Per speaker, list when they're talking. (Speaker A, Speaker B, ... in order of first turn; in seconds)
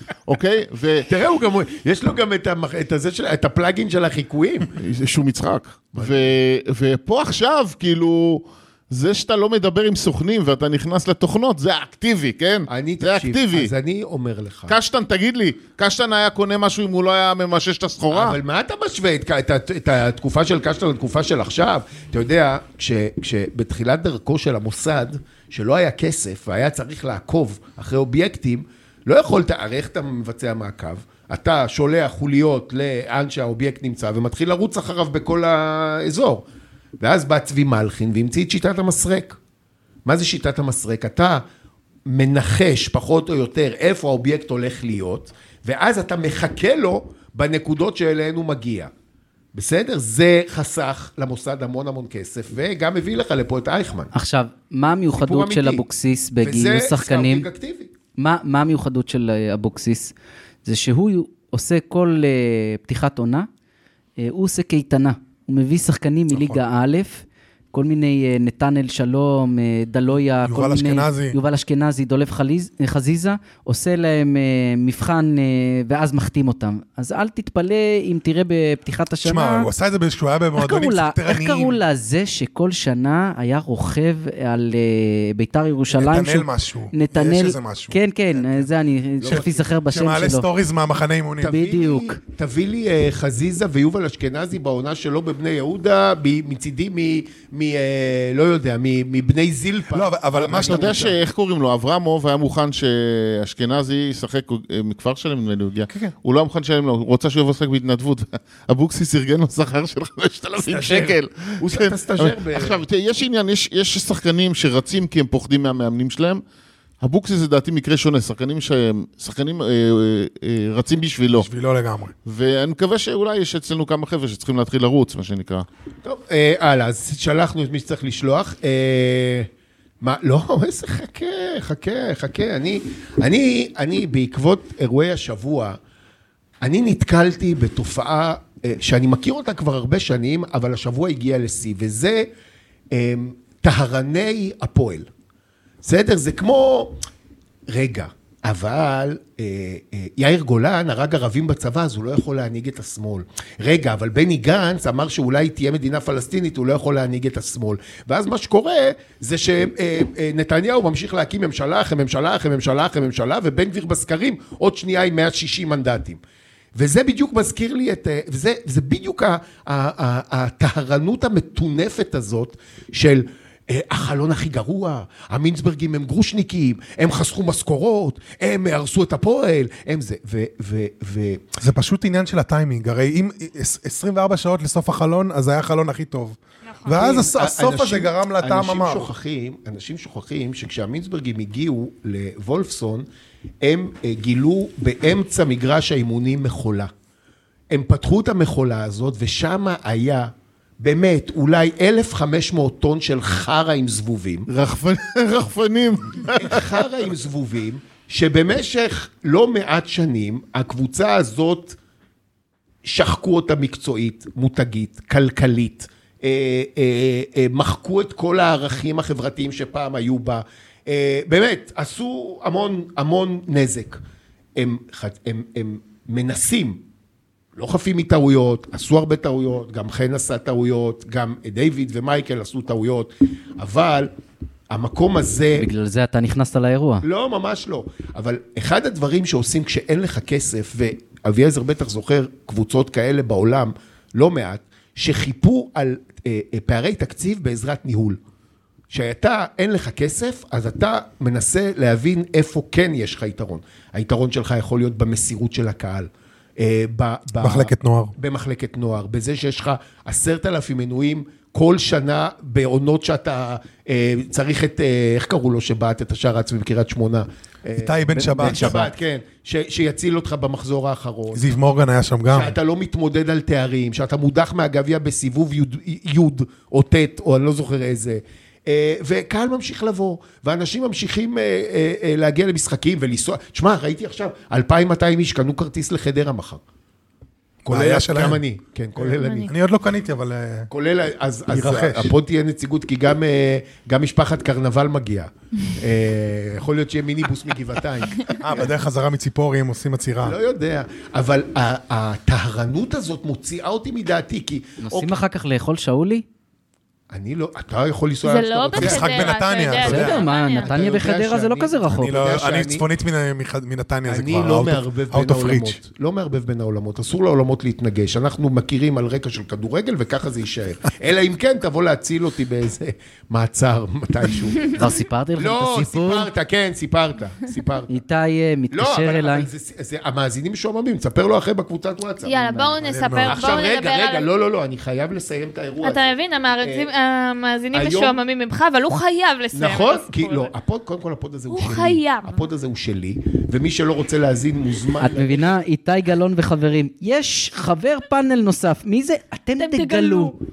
Speaker A: 0.3-1.1, 4.8-13.7, 14.7-18.4, 100.5-116.4, 117.0-121.5, 122.2-125.7, 204.5-206.8
Speaker B: 1.1-4.7, 5.9-6.3, 12.7-14.8, 18.1-36.4, 37.0-39.4, 40.0-41.4, 42.1-48.9, 49.5-54.1, 55.1-55.8, 56.4-57.9, 89.2-89.6, 91.4-101.2, 110.7-112.8, 126.0-129.5, 130.0-135.8, 136.6-142.3, 142.9-145.1, 145.8-146.9, 147.7-166.2, 166.7-181.5, 186.9-193.1, 193.6-196.9, 197.7-204.5, 206.4-211.8, 212.8-224.0, 224.6-226.8, 227.5-234.1, 234.7-235.7, 237.0-248.2, 248.9-271.5, 272.3-286.6, 287.6-289.5, 290.7-298.7, 300.2-305.2, 307.1-312.9, 314.1-324.8, 325.4-328.0, 328.7-336.1, 336.6-336.9, 337.7-338.2, 339.5-345.5
Speaker C: 54.1-57.5, 58.2-60.1, 60.6-63.5, 64.2-79.7, 80.6-90.5, 91.4-92.2, 235.6-237.0, 304.8-306.2, 309.8-312.2, 324.7-326.3, 327.9-329.5, 345.0-350.3
Speaker D: 66.3-66.6, 70.4-71.4, 79.2-81.8, 85.9-88.6, 89.2-91.5, 99.9-101.1, 121.3-122.1, 181.6-189.1, 257.4-258.1, 267.8-268.9, 271.3-272.6, 287.7-288.4, 289.0-290.7, 291.5-292.1, 298.4-300.4, 308.7-310.2, 311.9-315.8, 332.8-333.4
Speaker E: 186.7-187.0, 289.2-289.5, 308.2-310.8, 332.2-334.2, 335.8-340.5, 341.5-342.4, 349.6-350.3